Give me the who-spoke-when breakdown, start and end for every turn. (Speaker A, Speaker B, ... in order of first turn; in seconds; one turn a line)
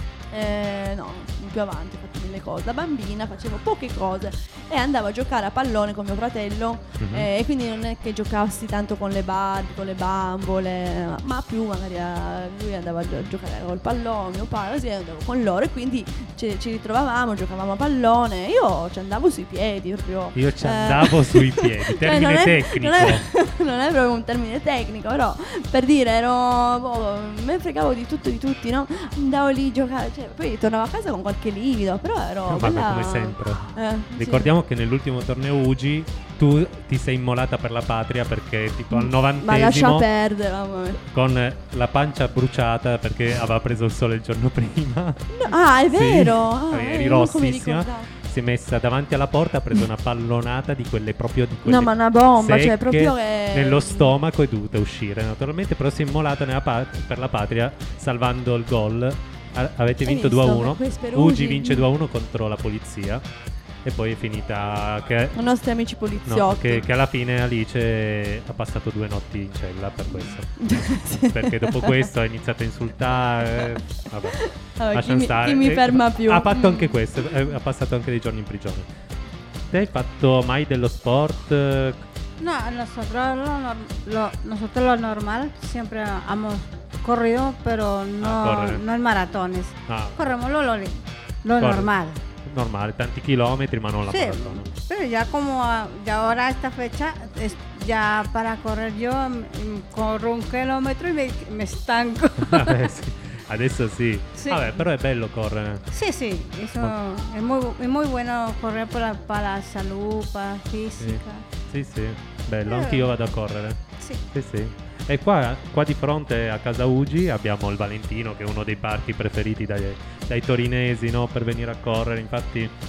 Speaker A: 0.3-34.5
Speaker B: 7.0-7.3
Speaker B: 20.3-23.2
Speaker B: 32.5-40.0
Speaker A: 38.9-41.0
Speaker B: 41.1-45.2
Speaker A: 45.3-48.1
Speaker B: 45.9-63.2
Speaker A: 51.6-54.1
Speaker A: 60.0-61.9
Speaker B: 63.8-65.4
Speaker A: 65.3-66.9
Speaker B: 66.2-70.5
Speaker A: 70.2-72.1
Speaker B: 71.3-78.9
Speaker A: 74.3-77.2
Speaker B: 79.7-82.0
Speaker C: 82.4-92.2
Speaker B: 88.2-88.8
Speaker B: 89.9-90.3
Speaker B: 91.6-91.9
Speaker B: 92.4-94.7
Speaker C: 94.1-102.8
Speaker B: 102.4-105.8
Speaker C: 104.4-104.8
Speaker C: 105.9-111.4
Speaker B: 111.0-113.8
Speaker C: 112.7-113.1
Speaker B: 114.3-122.7